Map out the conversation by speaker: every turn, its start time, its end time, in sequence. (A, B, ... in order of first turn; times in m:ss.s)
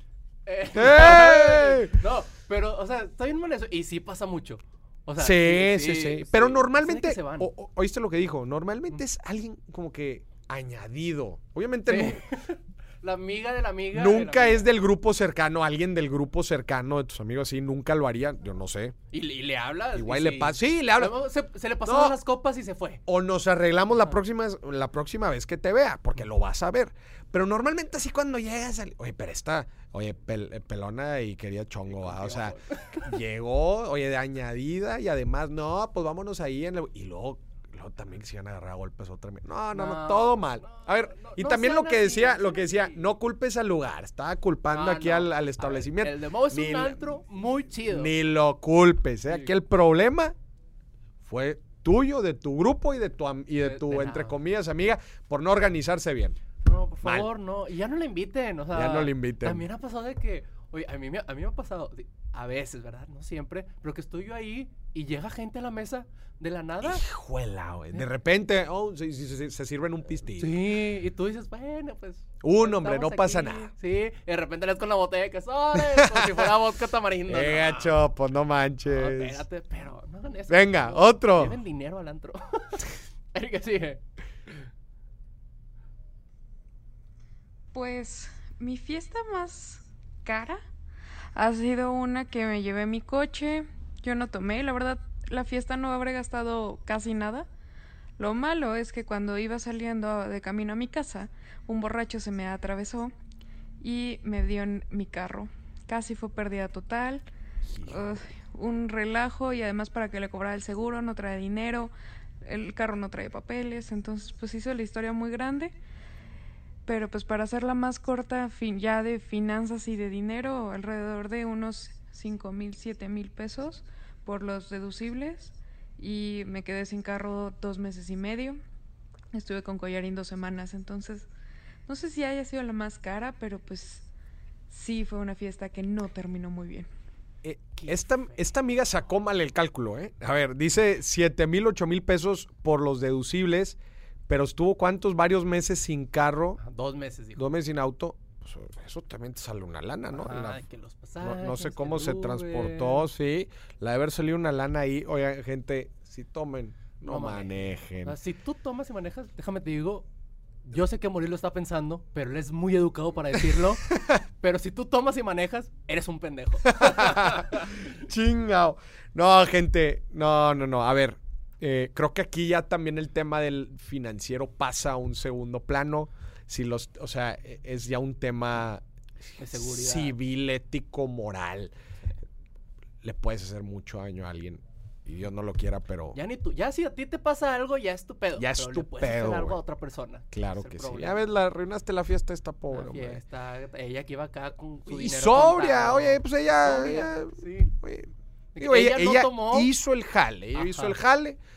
0:00.4-0:07.5 A
0:00.7-0:02.0 B
0:05.2-0:12.2 B
0:11.9-0:14.7 A
0:13.9-0:18.9 B
0:19.1-0:23.0 A
0:19.9-0:21.1 B
0:21.8-0:22.2 B
0:23.0-0:47.2 B
0:31.8-0:33.1 A
0:39.7-0:43.1 A
0:44.7-0:48.1 A
0:47.8-0:50.3 B
0:51.2-0:56.4 B
0:53.6-0:54.4 A
0:56.6-1:07.0 A
0:57.0-0:57.3 B
0:58.7-0:59.7 B
1:06.8-1:10.6 B
1:10.4-1:18.0 A
1:12.4-1:13.7 B
1:15.8-1:16.5 B
1:17.3-1:19.4 B
1:18.8-1:24.6 A
1:20.5-1:21.6 B
1:27.7-1:30.6 C
1:31.3-1:37.5 C
1:38.2-1:43.1 C
1:43.8-1:47.2 C
1:47.6-1:48.3 B
1:47.8-1:55.7 C
1:56.8-2:08.6 C
2:09.3-2:11.3 C
2:11.9-2:14.1 C
2:14.7-2:16.9 C
2:17.4-2:23.8 B
2:17.8-2:18.5 A
2:24.3-2:26.6 B
2:26.6-2:27.5 A
2:27.3-2:30.6 B
2:30.1-2:33.1 A
2:31.2-2:38.2 B
2:37.0-2:40.1 A
2:40.6-2:47.9 A
2:43.8-2:44.2 B
2:46.7-2:58.8 B
2:59.4-3:01.7 B
2:59.4-3:00.2 A
3:03.0-3:06.2 B
3:06.1-3:11.3 A
3:08.4-3:09.6 B
3:10.3-3:13.2 B
3:12.7-3:17.7 A
3:14.9-3:21.4 B
3:18.5-3:19.7 A
3:20.5-3:21.0 A